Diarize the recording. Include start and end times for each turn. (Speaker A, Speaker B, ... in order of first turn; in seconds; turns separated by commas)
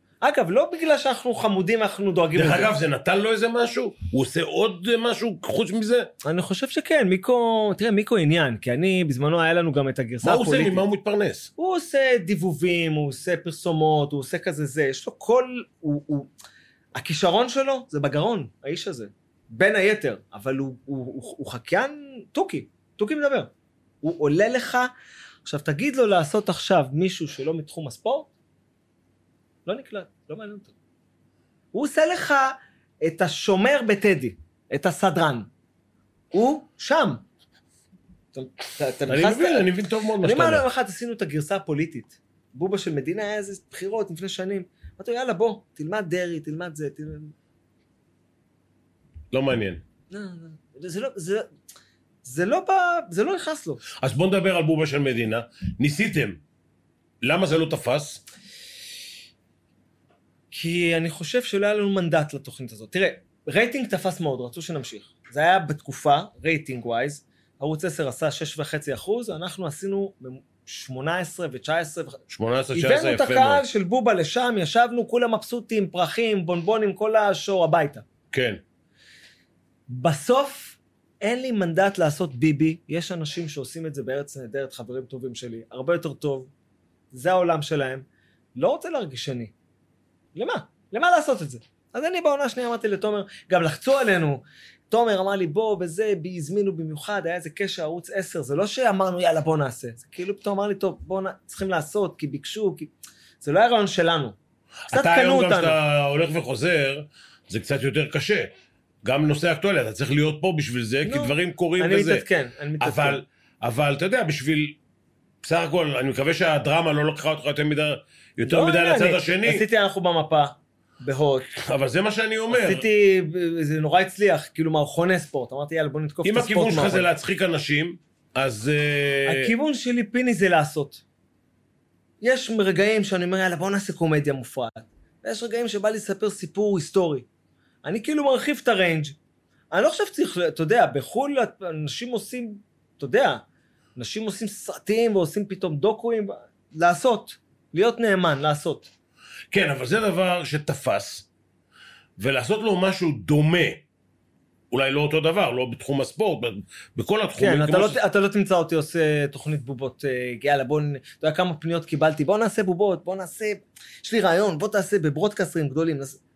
Speaker A: 0.2-2.7, Speaker B: 2.3-6.1, Speaker A: 6.2-10.8, Speaker B: 10.2-11.5, Speaker A: 11.6-16.3, Speaker A: 17.0-23.5, Speaker A: 24.0-24.9, Speaker A: 25.4-28.3, Speaker A: 29.6-30.7, Speaker A: 31.7-35.5, Speaker A: 36.3-37.2, Speaker A: 38.3-39.7, Speaker B: 39.1-40.6, Speaker A: 40.2-47.3, Speaker B: 49.3-49.8, Speaker A: 50.1-51.5, Speaker A: 52.2-53.8, Speaker B: 54.0-56.4, Speaker B: 57.2-58.2, Speaker A: 60.5-72.2, Speaker B: 72.3-73.6, Speaker A: 72.7-78.0, Speaker B: 78.3-78.6, Speaker A: 79.9-86.5, Speaker A: 87.1-89.5, Speaker A: 90.3-104.4, Speaker B: 104.9-108.5, Speaker A: 104.9-105.8, Speaker B: 109.0-112.2, Speaker A: 111.0-113.2, Speaker B: 112.8-114.8, Speaker B: 115.4-119.6, Speaker A: 118.4-121.5, Speaker B: 121.5-122.8, Speaker A: 122.5-127.1, Speaker B: 126.2-129.5, Speaker A: 129.3-131.0, Speaker A: 132.2-137.3, Speaker A: 137.8-139.2, Speaker A: 139.7-143.4, Speaker A: 143.9-148.9, Speaker B: 149.5-151.3, Speaker B: 152.2-153.8, Speaker B: 154.7-158.0, Speaker A: 157.4-166.2